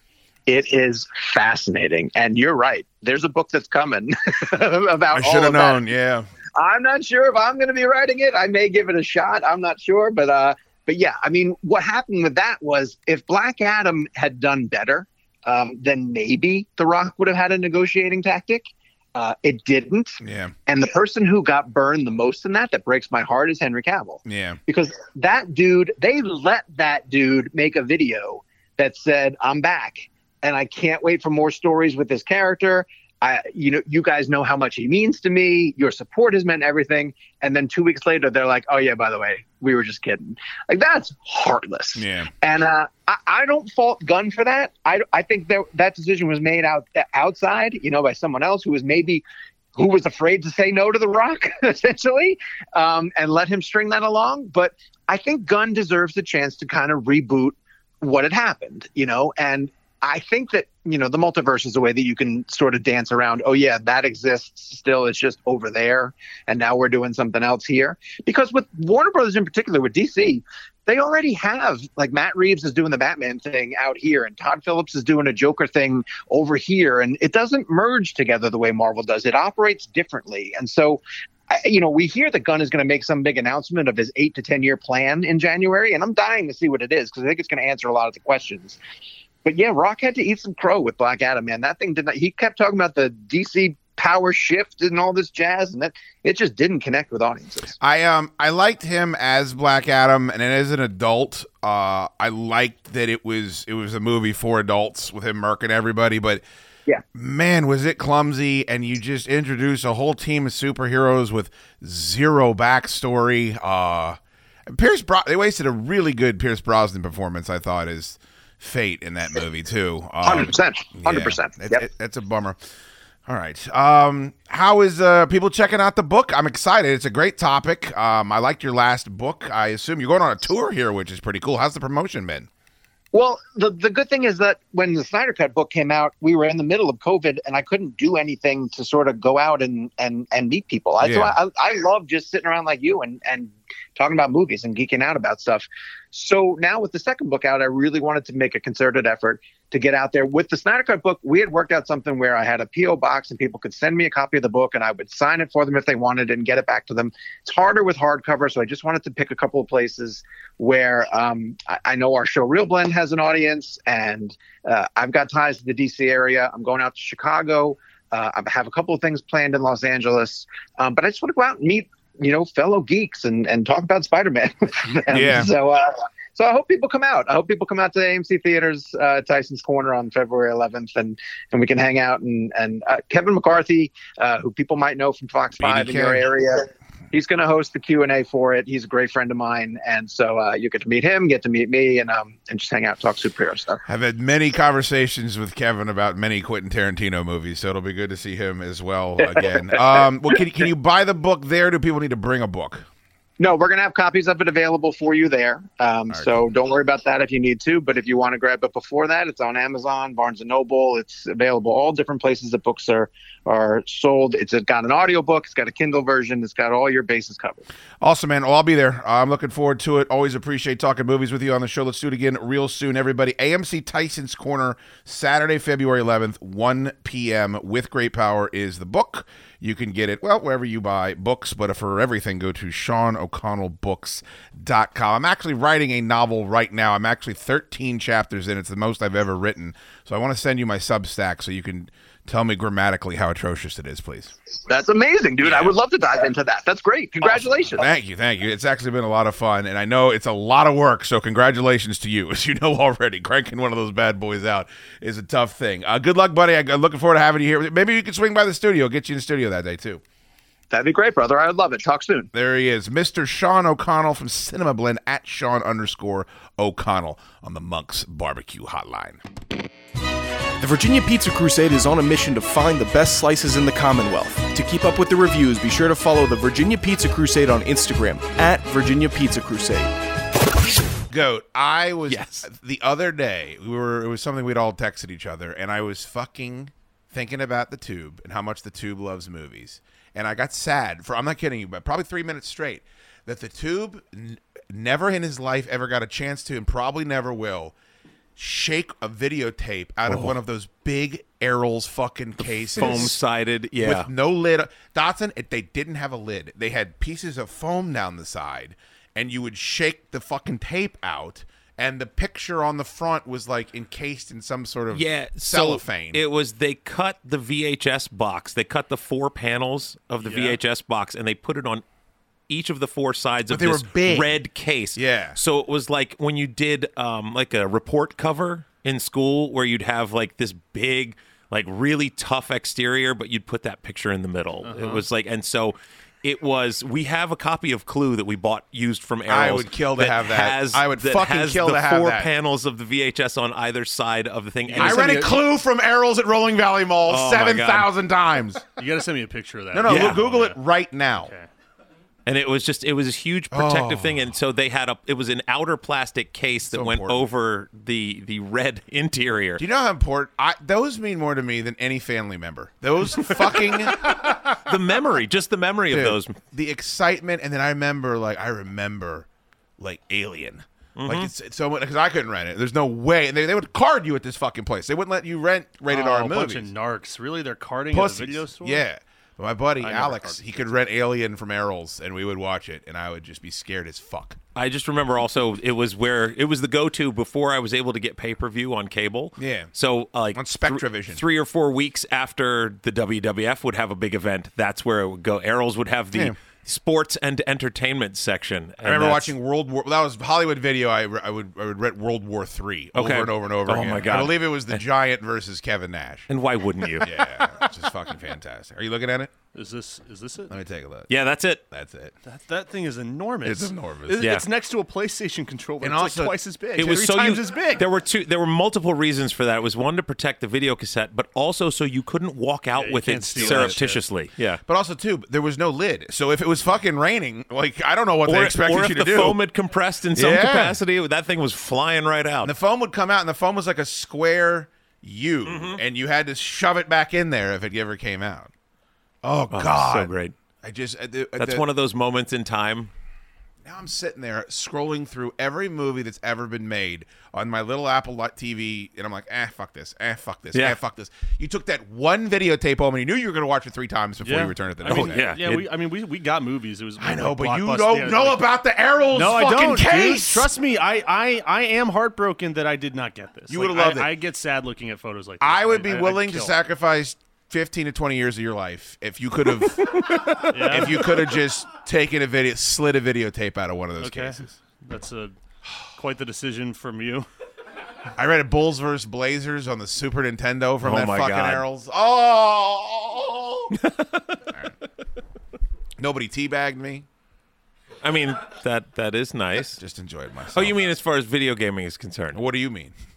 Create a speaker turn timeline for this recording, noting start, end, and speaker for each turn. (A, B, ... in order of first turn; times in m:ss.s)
0:00.5-0:05.8 A
0:05.1-0:06.3 B
0:06.6-0:49.2 A
0:20.2-0:20.5 B
0:24.2-0:24.6 B
0:42.0-0:42.3 B
0:49.7-1:28.8 A
1:29.4-1:37.7 A
1:37.8-1:46.4 B
1:47.1-2:02.6 B
2:00.2-2:01.8 A
2:03.3-2:12.5 B
2:13.1-3:13.8 A
2:21.0-2:21.3 B
2:55.1-2:55.5 B
3:05.6-3:06.2 B
3:13.9-3:22.8 B
3:19.3-3:20.0 A
3:23.4-3:37.6 A
3:26.1-3:26.4 B
3:38.0-4:04.3 B
4:04.7-4:07.9 A
4:05.4-4:05.7 B
4:07.8-4:20.0 B
4:20.7-4:22.3 A
4:22.3-4:29.2 B
4:30.6-4:39.9 C
4:41.1-4:57.7 B
4:42.1-4:42.5 C
4:58.4-5:03.2 B
5:00.1-5:00.3 D
5:02.4-5:04.1 D
5:03.8-5:16.2 B
5:14.9-5:21.8 D
5:20.2-5:20.6 E
5:22.5-5:45.2 D
5:23.5-5:24.4 B
5:24.9-5:25.4 B
5:34.6-5:35.0 E
5:39.3-5:42.3 B
5:44.6-5:45.5 E
5:44.8-5:48.7 B
5:47.1-5:47.9 D
5:48.7-5:50.6 E
5:49.7-5:51.3 B
5:49.9-5:50.2 D
5:51.1-5:51.5 E
5:52.2-5:59.6 D
5:53.5-5:54.3 B
5:56.7-5:57.3 B
5:59.6-6:04.1 B
6:03.3-6:04.2 E
6:04.5-6:06.4 D
6:05.9-6:09.3 B
6:09.8-6:16.7 B
6:11.0-6:11.3 D
6:15.9-6:18.8 E
6:17.9-6:24.4 B
6:19.8-6:20.7 E
6:24.5-6:39.3 D
6:29.4-6:29.7 B
6:30.3-6:31.2 B
6:36.1-6:36.4 B
6:38.8-6:46.3 B
6:42.9-6:44.8 D
6:46.3-6:47.2 D
6:46.8-6:48.1 E
6:47.0-6:49.3 B
6:49.5-6:50.5 E
6:50.5-6:51.1 B
6:51.1-6:51.6 D
6:51.7-6:52.1 B
6:52.2-6:57.9 E
6:53.4-6:54.3 B
6:54.2-6:54.5 D
6:55.8-6:57.4 B
6:56.8-7:04.6 D
7:02.7-7:04.1 E
7:03.3-7:04.0 B
7:04.6-7:09.4 B
7:08.2-7:12.5 D
7:10.1-7:10.8 B
7:12.4-7:18.5 B
7:15.5-7:15.8 D
7:19.2-7:21.6 B
7:19.5-7:20.4 D
7:21.4-7:22.9 D
7:23.6-7:35.3 B
7:30.5-7:30.8 D
7:34.2-7:38.5 E
7:34.8-7:35.7 D
7:37.0-7:40.5 B
7:39.1-7:46.5 E
7:43.5-7:44.1 B
7:45.4-7:54.5 B
7:49.6-7:51.4 E
7:50.1-7:50.4 D
7:54.0-7:55.4 E
7:56.0-7:57.3 E
7:58.1-8:03.7 B
8:00.8-8:01.6 D
8:03.8-8:04.4 D
8:06.0-8:07.0 B
8:08.0-8:09.8 D
8:09.8-8:10.9 B
8:10.5-8:12.4 D
8:12.3-8:12.9 B